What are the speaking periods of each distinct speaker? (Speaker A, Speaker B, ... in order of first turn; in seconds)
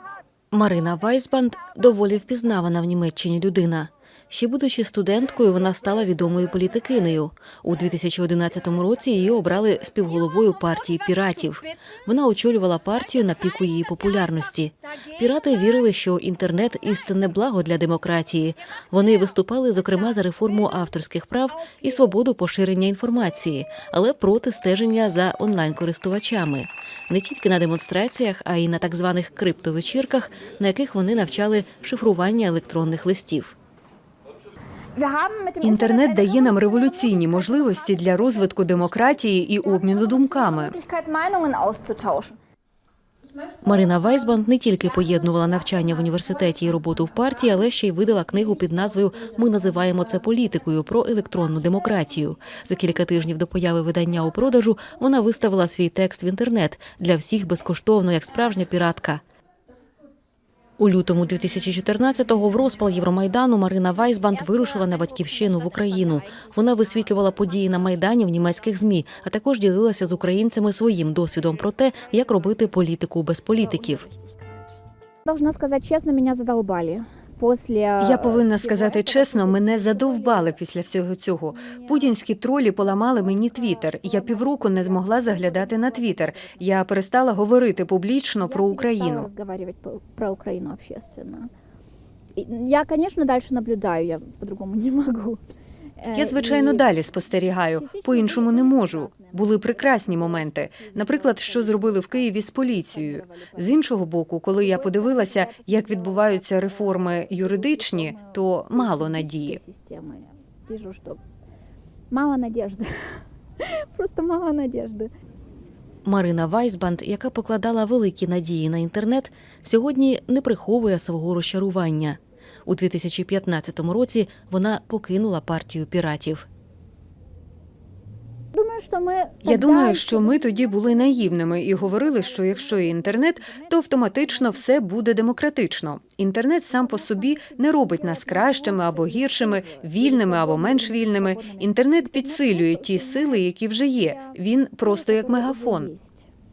Speaker A: 0.5-33.5, 43.6-59.2, 60.8-74.0, 116.0-126.4
Speaker B: 10.8-11.8, 13.1-14.3, 14.9-15.7, 34.9-42.4, 43.4-43.7, 45.1-47.5, 48.5-50.3, 64.1-69.4, 73.6-80.6, 81.5-87.0, 88.4-91.5, 92.3-95.4, 96.0-96.9, 97.7-103.8, 104.5-111.2, 112.1-115.1, 128.5-135.4, 136.7-146.3
Speaker C: 35.6-40.7, 78.0-89.3, 96.1-109.6, 129.4-145.9